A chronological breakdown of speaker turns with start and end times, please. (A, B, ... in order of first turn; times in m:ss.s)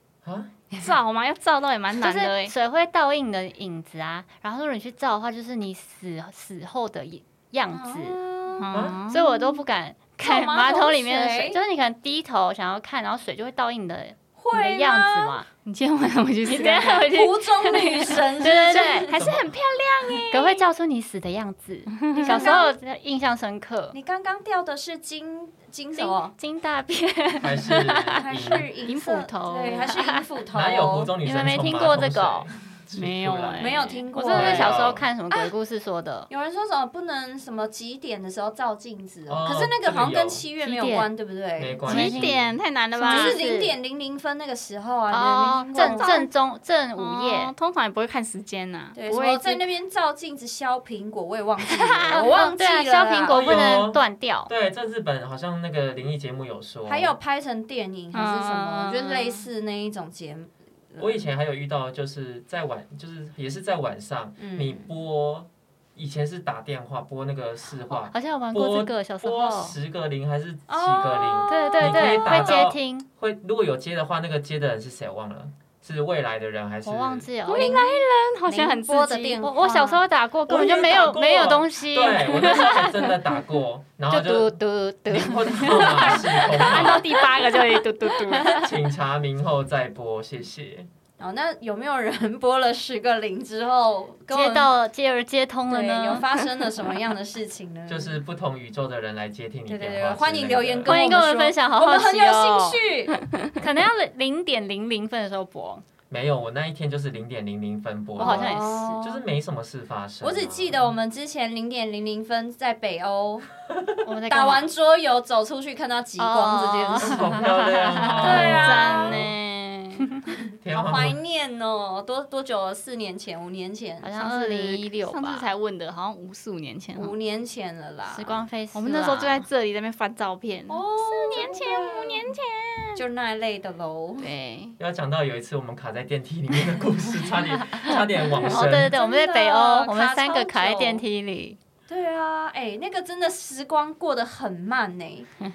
0:00.2-0:00.5 A
0:00.8-0:02.5 B
0:02.0-0:08.2 C
0:07.7-0:08.7 D
0:08.6-0:09.6 B
0:08.7-0:09.0 A
0:09.1-0:15.4 C
0:10.2-0:11.6 D
0:14.4-0:15.4 D
0:15.6-0:20.7 B
0:16.5-0:17.3 C
0:17.0-0:19.2 D
0:18.4-0:19.2 C
0:19.2-0:19.6 A
0:20.3-0:24.0 C
0:22.0-0:22.6 B
0:22.1-0:22.8 D
0:23.9-0:26.3 D
0:26.0-0:28.2 C
0:27.4-0:28.7 A
0:28.2-0:31.1 D
0:28.8-0:30.0 B
0:29.7-0:30.2 C
0:30.5-0:35.0 A
0:31.2-0:32.5 C
0:33.0-0:34.1 B
0:33.6-0:35.5 D
0:34.1-0:36.3 C
0:36.3-0:41.9 D
0:39.3-0:40.4 A
0:40.6-0:41.1 C
0:41.6-0:42.5 A
0:41.9-0:43.4 B
0:41.9-0:43.8 C
0:43.0-0:46.2 D
0:45.1-0:47.5 C
0:45.7-0:46.3 B
0:47.0-0:49.7 B
0:48.9-0:53.6 D
0:52.0-0:54.5 C
0:53.3-0:57.1 A
0:56.8-1:01.2 D
0:58.1-0:59.5 B
1:01.0-1:17.3 A
1:04.4-1:04.9 D
1:08.0-1:09.8 C
1:10.7-1:12.6 D
1:11.5-1:13.1 C
1:16.8-1:17.8 C
1:17.4-1:19.4 B
1:17.5-1:20.0 D
1:19.4-1:22.9 C
1:20.5-1:24.5 A
1:24.1-1:28.7 C
1:25.1-1:27.1 A
1:25.8-1:28.6 B
1:28.4-1:30.9 A
1:31.2-1:34.7 D
1:34.3-1:36.2 C
1:35.7-1:38.2 D
1:37.9-1:41.0 A
1:39.7-1:43.2 D
1:40.8-1:42.8 C
1:43.6-1:45.8 C
1:46.1-1:50.9 A
1:48.2-1:49.0 C
1:48.2-1:49.2 D
1:50.2-1:53.5 D
1:54.0-1:54.7 C
1:54.3-1:57.3 D
1:56.2-1:58.6 C
1:57.0-1:59.0 A
1:58.2-2:00.1 B
1:58.2-1:59.3 D
2:00.6-2:01.2 A
2:00.7-2:04.1 D
2:04.0-2:05.5 C
2:04.2-2:07.1 B
2:06.9-2:08.4 D
2:08.1-2:09.4 C
2:08.7-2:13.0 B
2:10.7-2:12.3 D
2:13.0-2:14.3 D
2:14.2-2:14.8 B
2:14.8-2:18.9 A
2:18.4-2:21.6 C
2:18.9-2:21.0 D
2:21.9-2:25.3 D